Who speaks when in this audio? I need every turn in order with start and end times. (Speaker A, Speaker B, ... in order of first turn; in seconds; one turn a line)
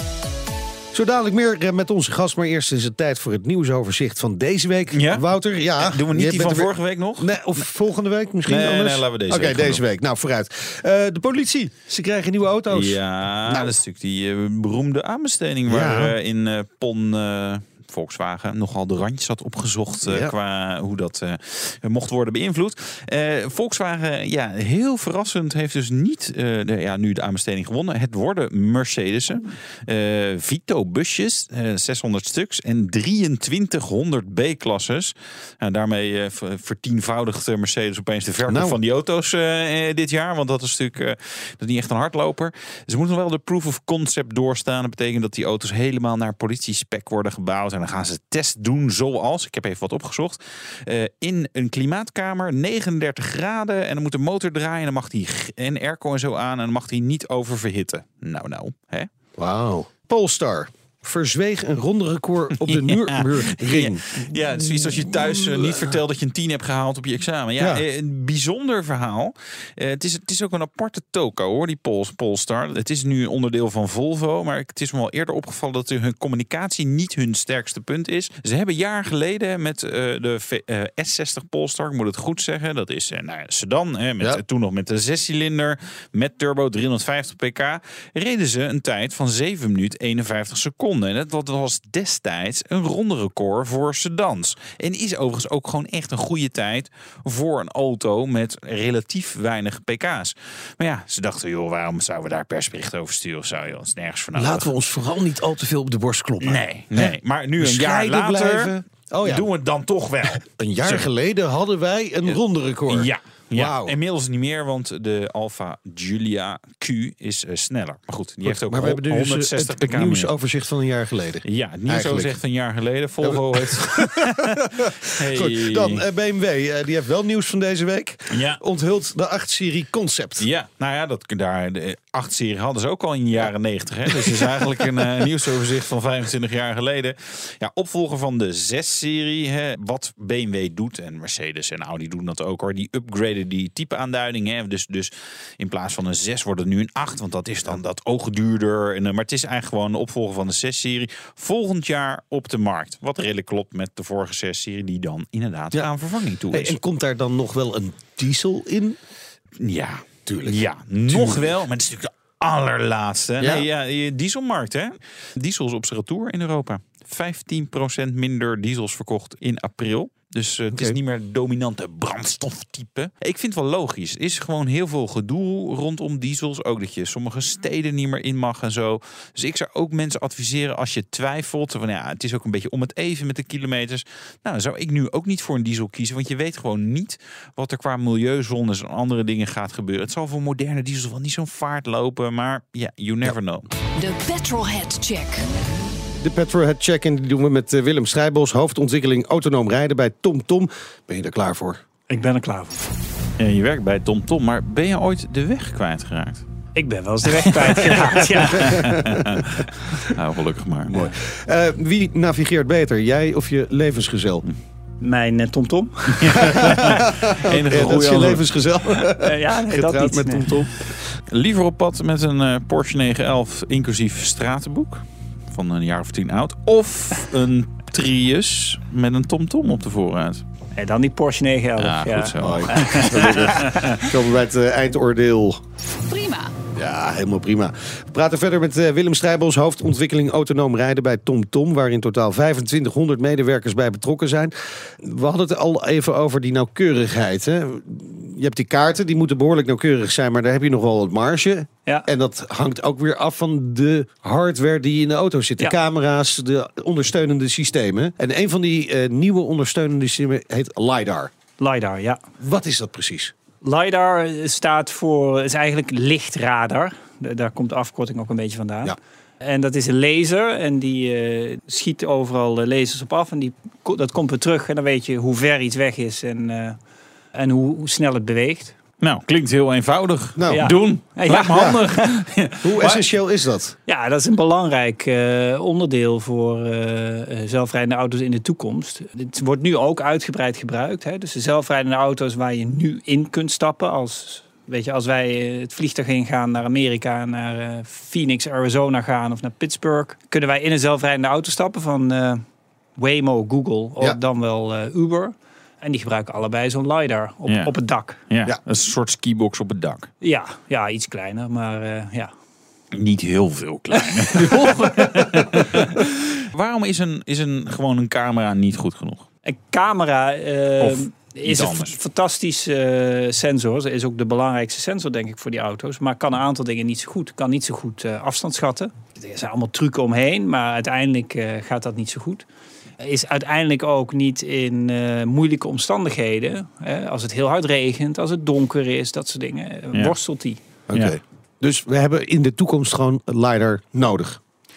Speaker A: 0.9-13.7
Speaker B: 4.9-5.2
Speaker B: 5.8-7.4
Speaker B: 8.4-9.8
Speaker B: 12.7-59.1
Speaker A: 15.7-16.1
Speaker A: 20.0-20.3
Speaker A: 38.5-38.8
Speaker A: 59.4-66.0
Speaker B: 62.7-104.7
Speaker A: 67.6-67.8
Speaker A: 104.3-109.5
Speaker B: 106.4-111.1
Speaker A: 110.5-113.9
Speaker B: 112.9-120.3
Speaker A: 118.4-122.3
Speaker B: 121.4-126.0
Speaker A: 123.2-124.2
Speaker A: 124.8-130.5
Speaker B: 128.3-128.6
Speaker B: 130.4-156.8
Speaker A: 156.5-159.0
Speaker B: 159.6-193.7
Speaker A: 160.2-161.4
Speaker A: 163.4-163.6
Speaker C: 193.9-195.4
Speaker A: 196.0-201.8
Speaker D: 202.1-202.9
Speaker B: 203.4-206.4
Speaker D: 206.7-208.9
Speaker B: 207.7-210.9
Speaker A: 208.6-209.4
Speaker A: 210.9-214.4
Speaker D: 215.0-216.9
Speaker B: 216.2-219.0
Speaker A: 217.0-221.2
Speaker D: 219.2-220.5
Speaker B: 221.3-230.4
Speaker D: 230.7-233.8
Speaker B: 231.8-233.8
Speaker A: 232.4-235.6
Speaker C: 236.1-236.5
Speaker A: 236.7-261.3
Speaker D: 261.6-262.2
Speaker A: 262.4-263.3
Speaker D: 263.6-276.8
Speaker D: 277.3-278.8
Speaker B: 279.0-283.0
Speaker A: 280.4-280.8
Speaker D: 280.5-282.0
Speaker A: 281.5-281.8
Speaker A: 282.6-283.7
Speaker D: 283.9-302.4
Speaker D: 302.9-308.2
Speaker B: 307.4-310.1
Speaker D: 310.2-312.3
Speaker B: 312.9-319.2
Speaker D: 319.4-332.4
Speaker B: 320.8-321.9
Speaker D: 333.0-340.6
Speaker A: 340.9-344.4